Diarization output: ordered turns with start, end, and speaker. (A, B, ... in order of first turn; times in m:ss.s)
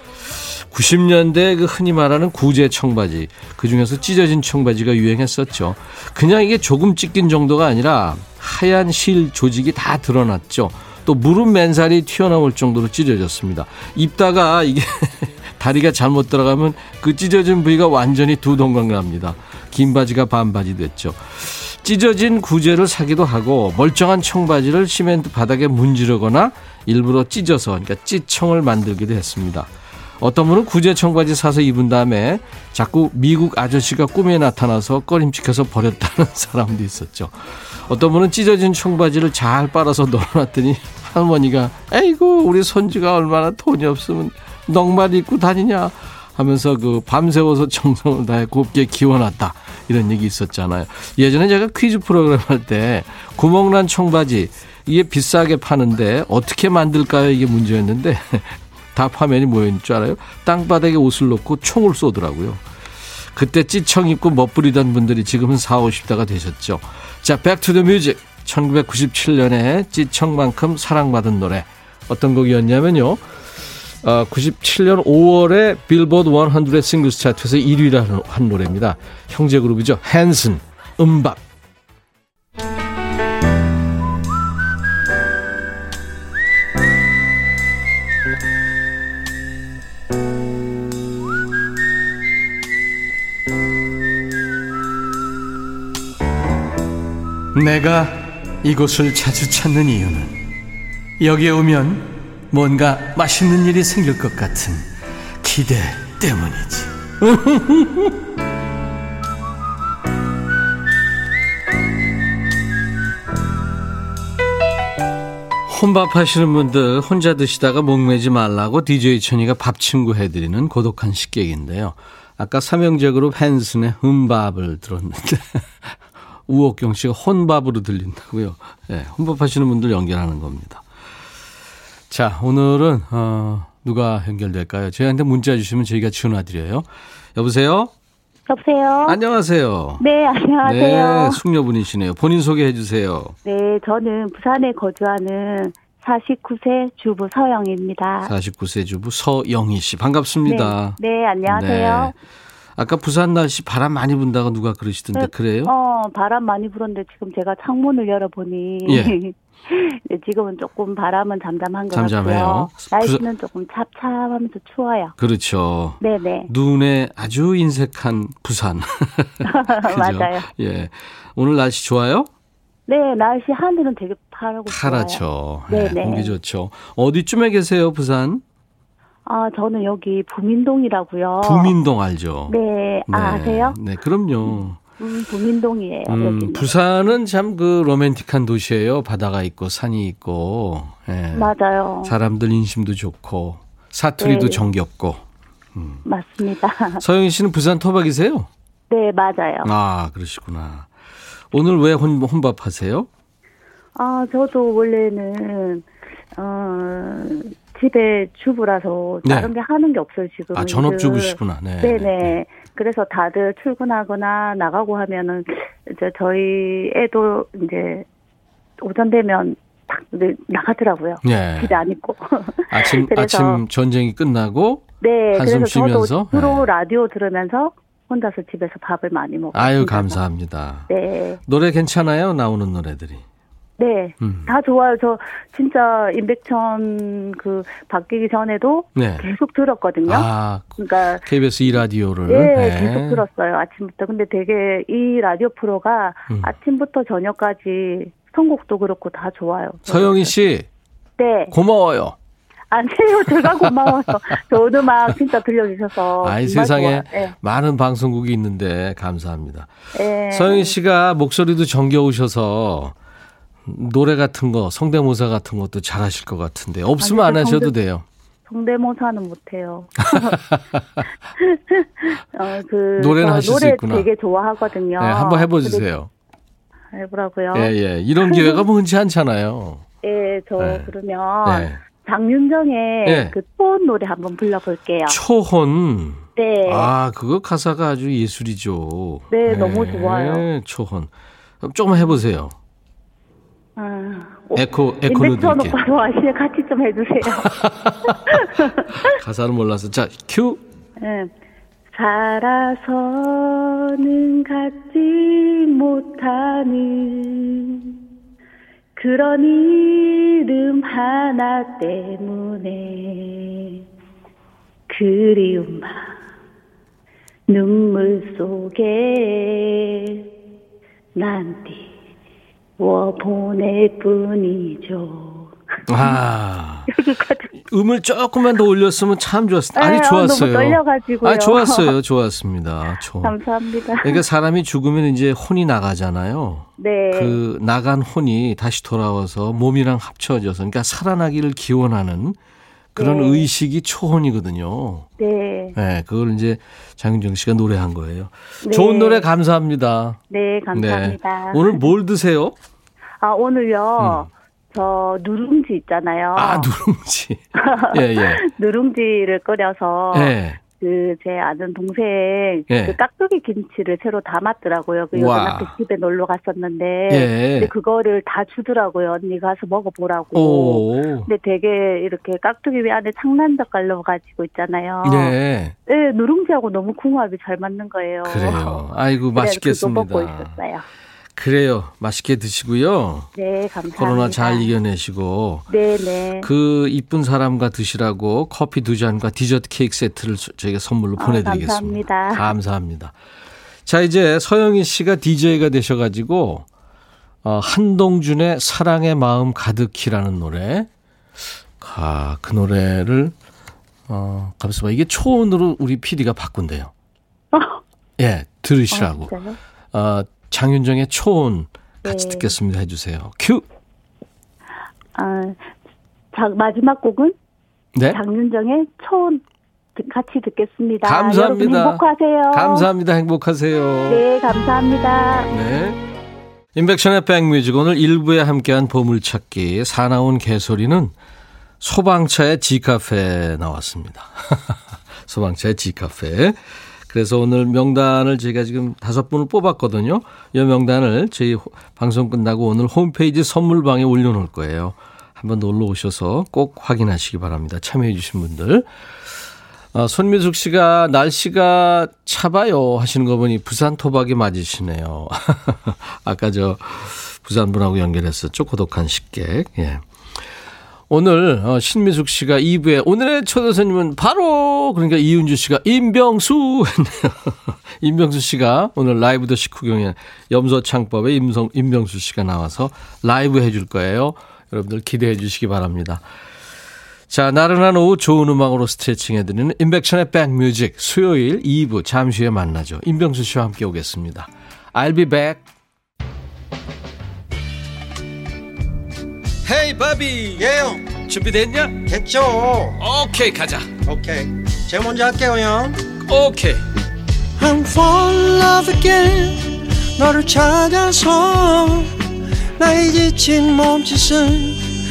0:00.4-1:02.6 A
1:03.3-1:13.2 A
1:14.0-1:21.4 A
1:37.5-1:40.5 A
1:41.2-1:44.9 A
1:45.4-1:48.2 A
1:55.7-2:05.8 A
2:06.5-2:10.8 A
2:12.1-2:17.9 A
2:18.5-2:19.2 B
2:19.1-2:20.0 A
2:20.0-2:21.4 B
2:20.6-2:23.4 A
2:23.4-2:28.3 B
2:28.2-2:32.1 A
2:30.4-2:32.1 B
2:32.8-2:35.7 A
2:35.1-2:45.1 B
2:38.9-2:39.1 A
2:41.9-2:43.2 A
2:45.2-2:52.3 A
2:46.0-2:46.5 B
2:49.4-2:50.5 B
2:52.9-2:56.3 B
2:54.7-2:58.4 A
2:59.3-3:01.7 B
3:01.4-3:02.6 A
3:02.5-3:03.8 B
3:03.1-3:04.8 A
3:05.0-3:06.7 B
3:06.1-3:15.2 A
3:11.4-3:12.1 B
3:14.2-3:14.6 B
3:15.8-3:16.0 A
3:16.0-3:17.0 B
3:17.0-3:18.5 A
3:18.9-3:19.7 B
3:19.6-3:20.9 A
3:21.5-3:23.1 A
3:24.0-3:38.1 B
3:29.2-3:29.5 A
3:30.5-3:32.4 A
3:38.8-3:43.6 B
3:41.2-3:41.8 A
3:42.7-3:46.7 A
3:45.0-3:50.2 B
3:49.5-3:50.9 A
3:50.9-3:51.4 B
3:51.5-3:53.2 A
3:53.8-4:01.3 B
3:54.2-3:54.5 A
3:59.0-3:59.2 A
4:00.1-4:03.2 A
4:02.3-4:10.3 B
4:09.9-4:10.7 A
4:11.2-4:11.6 B
4:11.5-4:12.2 A
4:12.7-4:17.4 B
4:13.3-4:14.4 A
4:16.2-4:19.7 A
4:19.9-4:20.7 B
4:20.3-4:23.0 A
4:23.6-4:28.0 A
4:27.0-4:27.7 B
4:28.5-4:30.4 B
4:30.1-4:31.0 A
4:31.4-4:35.9 B
4:33.0-4:34.1 A
4:35.0-4:36.1 A
4:36.9-4:38.6 B
4:37.5-4:39.8 A
4:40.0-4:45.2 B
4:40.6-4:40.9 A
4:41.4-4:41.8 A
4:43.0-4:43.4 A
4:45.1-4:52.6 A
4:46.4-4:46.9 B
4:49.3-4:50.5 B
4:53.8-4:57.5 B
4:54.5-4:55.8 A
4:57.4-5:00.6 A
4:58.1-4:59.1 B
5:01.0-5:01.3 B
5:01.9-5:08.0 B
5:09.0-5:13.8 B
5:14.9-5:16.1 B
5:17.5-5:20.3 B
5:21.2-5:21.9 B
5:22.8-5:26.1 B
5:25.9-5:26.9 A
5:26.9-5:27.5 B
5:27.6-5:33.4 A
5:29.8-5:31.9 B
5:33.2-5:34.2 B
5:34.0-5:42.4 A
5:36.8-5:37.4 B
5:43.0-5:45.1 A
5:43.0-5:43.5 B
5:45.2-5:45.8 B
5:45.8-5:50.2 A
5:48.6-5:49.3 B
5:50.3-5:51.8 B
5:50.7-5:52.6 A
5:53.2-5:56.7 B
5:54.0-5:54.3 A
5:56.4-5:58.4 A
5:57.6-6:15.4 B
6:00.1-6:00.6 A
6:02.7-6:03.0 A
6:05.1-6:05.7 A
6:07.1-6:07.7 A
6:10.4-6:11.3 A
6:15.0-6:15.8 A
6:15.9-6:20.8 B
6:18.2-6:20.5 A
6:21.4-6:23.3 A
6:23.4-6:24.7 B
6:24.0-6:25.6 A
6:25.7-6:26.5 B
6:26.4-6:33.1 A
6:31.2-6:32.5 B
6:33.9-6:36.6 A
6:37.4-6:40.9 A
6:41.8-6:43.3 A
6:44.1-6:46.9 A
6:47.5-6:47.8 B
6:48.2-6:49.3 A
6:48.9-6:49.6 B
6:49.9-6:53.6 A
6:52.0-6:52.5 B
6:55.2-6:55.7 B
6:56.3-6:57.4 B
6:58.0-6:58.2 A
6:58.1-6:59.4 B
7:00.0-7:02.9 B
7:01.0-7:04.2 A
7:04.1-7:05.5 B
7:05.5-7:06.0 A
7:06.8-7:11.1 A
7:11.8-7:28.9 A
7:29.9-7:40.0 A
7:41.1-7:56.2 A
7:57.3-8:05.6 A
8:09.6-8:10.6 A
8:10.6-8:11.2 C
8:11.2-8:12.1 A
8:12.0-8:13.0 C
8:13.0-8:13.9 A
8:14.0-8:16.0 C
8:16.2-8:16.8 A
8:17.6-8:22.1 C
8:22.8-8:24.8 C